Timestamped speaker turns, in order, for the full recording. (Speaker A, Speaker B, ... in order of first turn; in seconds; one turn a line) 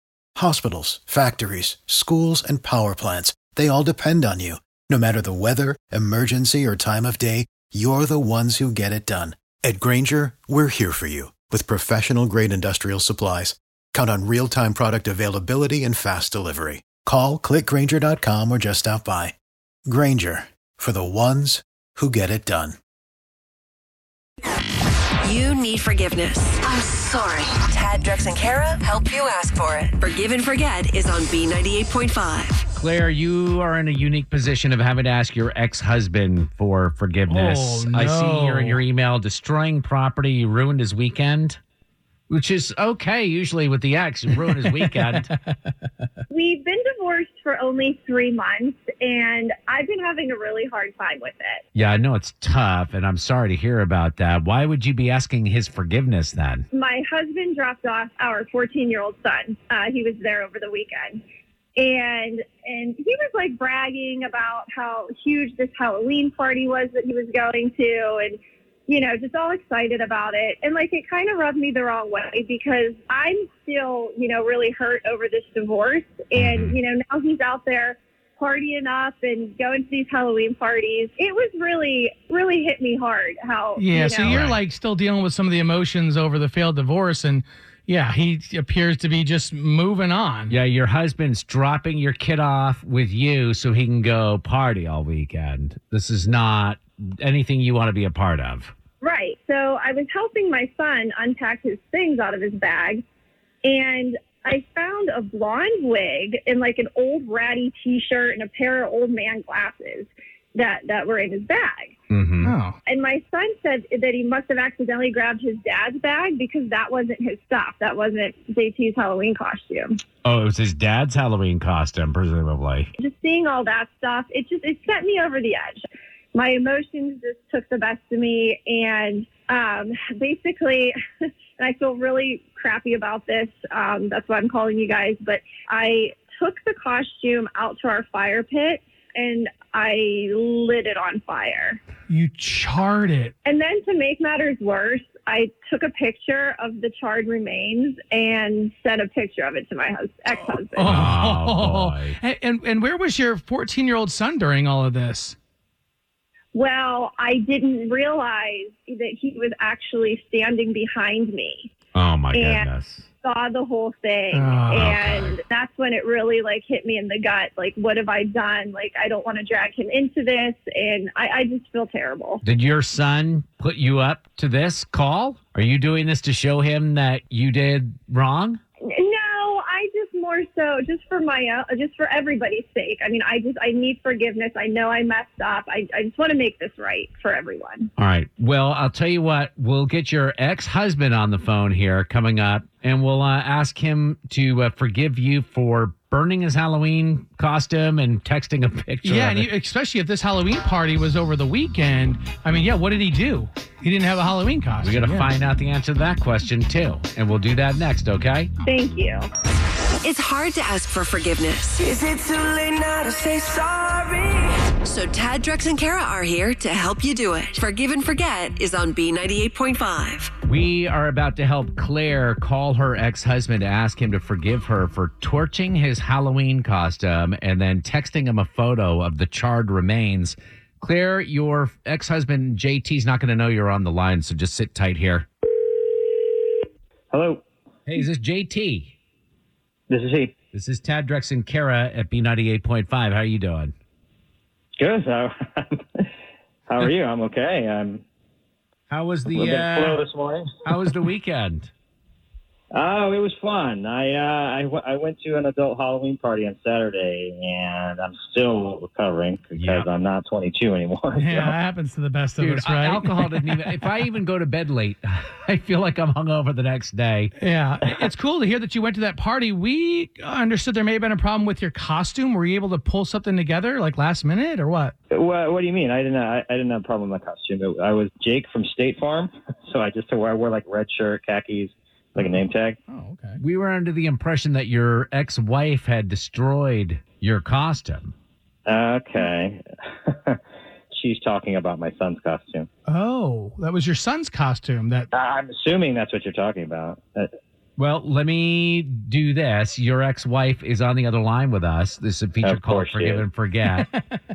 Speaker A: 0.4-19.4
Speaker A: 19.9-22.8
Speaker B: 25.2-32.6
Speaker C: 32.7-41.6
Speaker D: 37.3-38.8
Speaker C: 42.3-45.3
Speaker D: 44.7-45.4
Speaker E: 46.3-51.6
Speaker C: 51.8-56.6
Speaker E: 56.7-61.2
Speaker E: 61.8-84.4
Speaker C: 76.4-76.8
Speaker D: 83.8-90.5
Speaker C: 84.3-84.6
Speaker C: 90.5-98.7
Speaker E: 99.0-103.0
Speaker E: 103.6-111.9
Speaker C: 112.1-112.5
Speaker D: 112.4-112.8
Speaker E: 112.9-120.0
Speaker C: 120.2-122.9
Speaker E: 123.0-125.8
Speaker E: 126.3-130.9
Speaker E: 131.6-141.8
Speaker D: 142.1-143.3
Speaker E: 143.4-151.0
Speaker D: 150.7-155.4
Speaker C: 150.9-152.2
Speaker E: 156.5-161.7
Speaker C: 161.9-163.1
Speaker E: 162.3-162.7
Speaker E: 163.2-172.4
Speaker D: 164.3-164.9
Speaker C: 164.8-165.4
Speaker C: 172.4-178.6
Speaker E: 178.9-187.9
Speaker C: 188.0-199.5
Speaker D: 199.0-205.3
Speaker C: 204.8-208.5
Speaker E: 208.6-209.3
Speaker B: 210.0-211.9
Speaker F: 211.9-214.5
Speaker B: 214.8-220.3
Speaker C: 220.4-235.3
Speaker G: 237.1-237.4
Speaker C: 237.9-238.9
Speaker G: 239.9-240.3
Speaker C: 240.5-243.7
Speaker G: 244.8-246.1
Speaker G: 246.7-248.0
Speaker C: 248.9-250.0
Speaker G: 249.3-250.9
Speaker C: 250.7-251.7
Speaker G: 252.7-261.6
Speaker C: 259.6-259.9
Speaker D: 261.2-263.8
Speaker C: 262.4-267.3
Speaker D: 267.4-274.9
Speaker G: 275.1-282.8
Speaker D: 282.2-283.4
Speaker C: 283.4-288.1
Speaker G: 288.7-290.4
Speaker G: 290.9-292.7
Speaker D: 292.9-295.1
Speaker G: 295.1-297.3
Speaker C: 297.8-303.9
Speaker G: 302.4-303.3
Speaker D: 303.7-304.1